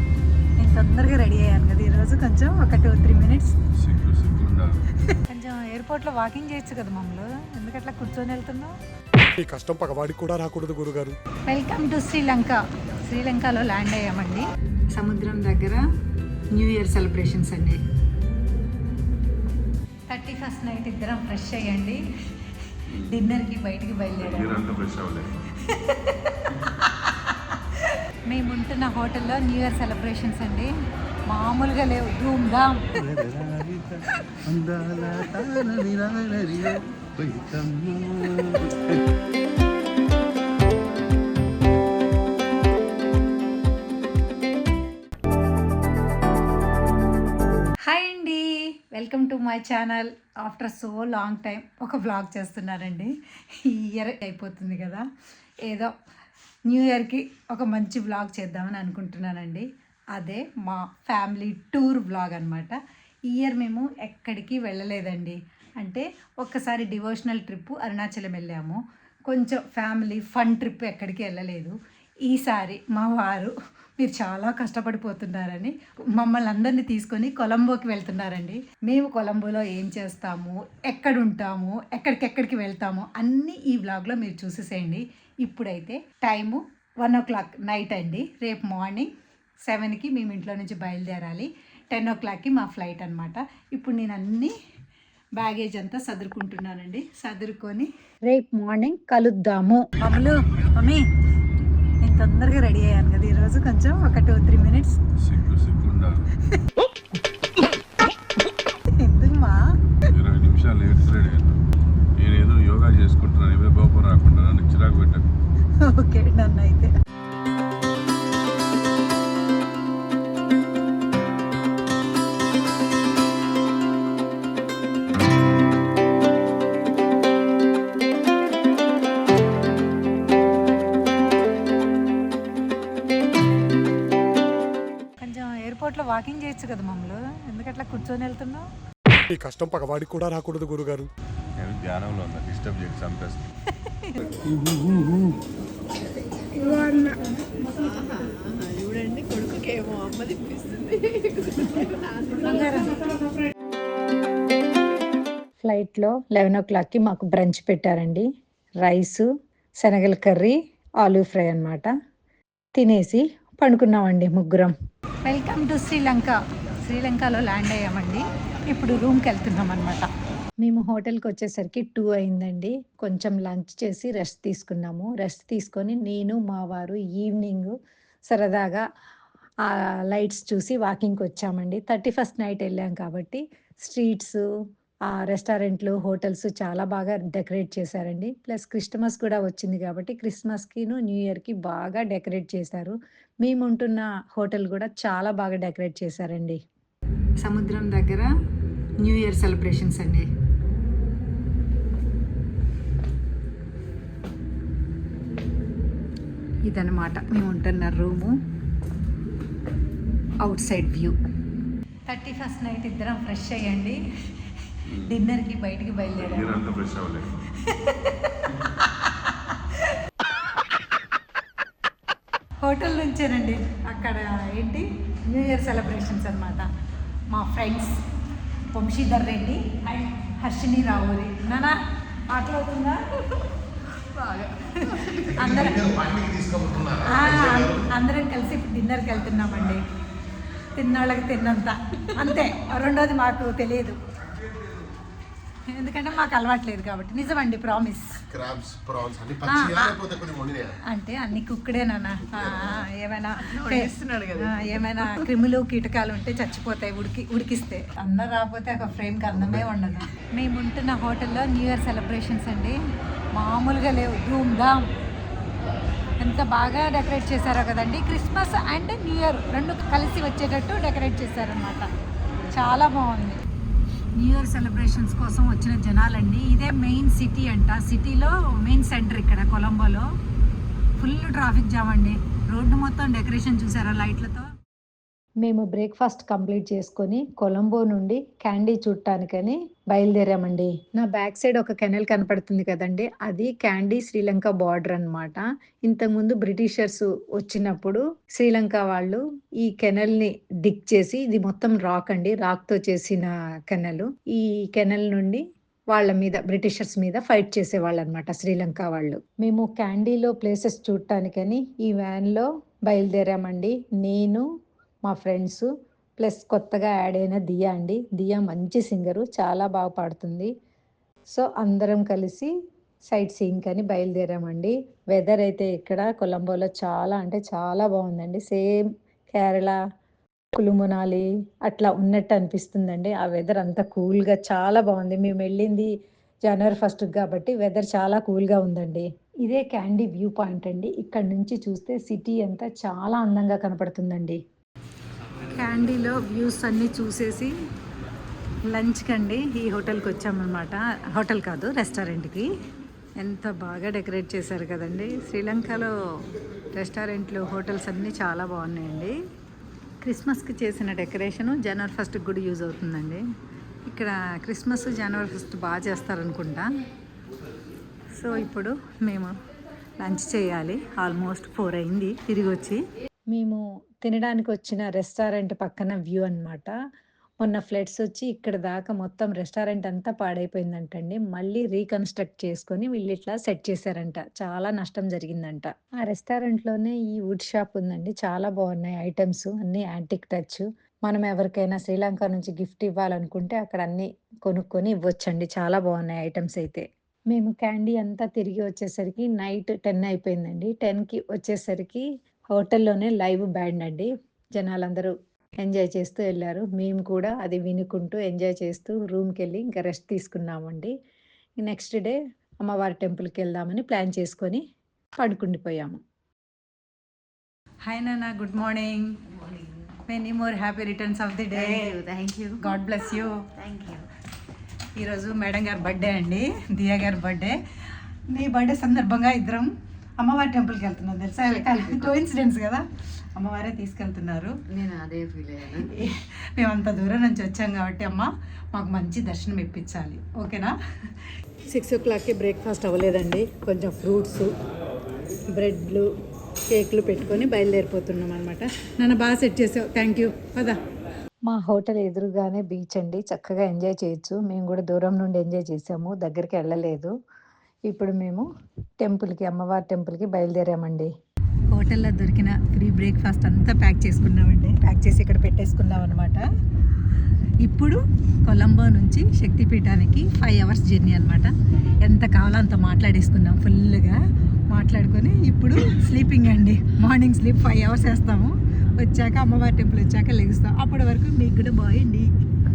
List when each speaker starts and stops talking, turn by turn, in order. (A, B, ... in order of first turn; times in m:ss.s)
0:00.6-0:03.6 A
0:03.8-0:05.0 B
0:05.0-0:08.7 A
0:09.4-0:11.2 C
0:11.5-0:15.8 A
0:16.5-0:17.8 A
0:20.1-0:22.0 A
0:23.0-0:24.6 A
0:24.2-0:25.3 B
0:25.5-0:30.7 A
0:31.3-0:32.8 A
0:32.9-0:39.0 B
0:47.8-0:55.0 A
0:55.6-0:55.9 A
0:56.7-1:29.1 A
1:29.7-1:34.5 A
1:35.4-1:41.1 A
1:42.0-1:45.0 A
1:45.2-1:46.3 B
1:48.8-1:49.6 A
1:50.1-1:51.6 B
1:52.2-1:55.3 B
1:55.8-1:56.9 A
2:15.2-2:18.7 A
2:19.3-2:21.1 C
2:21.6-2:23.4 B
2:23.7-2:24.3 A
2:24.4-2:25.4 B
2:26.6-2:27.2 A
2:27.8-2:32.4 D
2:31.6-2:33.1 A
2:35.6-2:38.3 A
2:38.8-2:39.3 A
2:39.8-2:41.9 A
2:42.7-2:44.7 A
2:45.2-2:50.1 A
2:50.6-2:57.7 A
2:58.3-2:58.8 A
2:59.6-3:04.4 A
3:05.1-3:16.6 A
3:17.4-3:18.3 A
3:19.0-3:20.3 A
3:26.7-3:28.3 A
3:30.4-3:31.2 A
3:32.1-3:34.0 A
3:34.8-3:36.6 A
3:36.2-3:37.3 B
3:37.5-3:40.0 A
3:42.6-3:46.7 A
3:47.3-3:48.0 A
3:48.7-3:51.8 A
3:52.3-3:53.4 A
3:54.6-3:56.0 A
3:55.9-3:56.9 E
3:56.9-3:59.8 A
4:00.7-4:04.0 A
4:05.7-4:08.3 A
4:08.3-4:10.7 E
4:09.4-4:22.8 A
4:13.5-4:14.3 D
4:23.3-4:24.8 A
4:26.2-4:31.9 A
4:32.5-4:33.4 A
4:34.2-4:40.1 A
4:41.0-4:44.5 A
4:45.4-5:14.4 A
5:15.0-5:15.7 A
5:16.2-5:20.5 A
5:21.3-5:22.5 A
5:23.1-5:28.7 A
5:29.3-5:29.8 A
5:30.5-5:35.9 A
5:36.5-5:44.4 A
5:45.5-5:47.5 A
5:48.7-5:52.5 A
5:53.2-5:55.9 A
5:56.7-5:59.2 A
6:00.0-6:03.2 A
6:03.8-6:06.7 A
6:08.1-6:09.3 A
6:10.0-6:16.7 A
6:17.4-6:50.9 A
6:51.6-6:54.6 A
6:55.2-6:56.0 A
6:57.8-7:04.0 A
7:01.6-7:02.6 D
7:04.9-7:07.6 A
7:08.3-7:14.8 A
7:14.7-7:15.6 D
7:15.6-7:24.5 A
7:25.5-7:26.1 A
7:26.7-7:30.8 A
7:31.5-7:37.1 A
7:37.8-7:38.5 A
7:39.0-7:41.1 A
7:41.7-7:46.5 A
7:47.6-7:51.5 A
7:52.0-8:02.3 A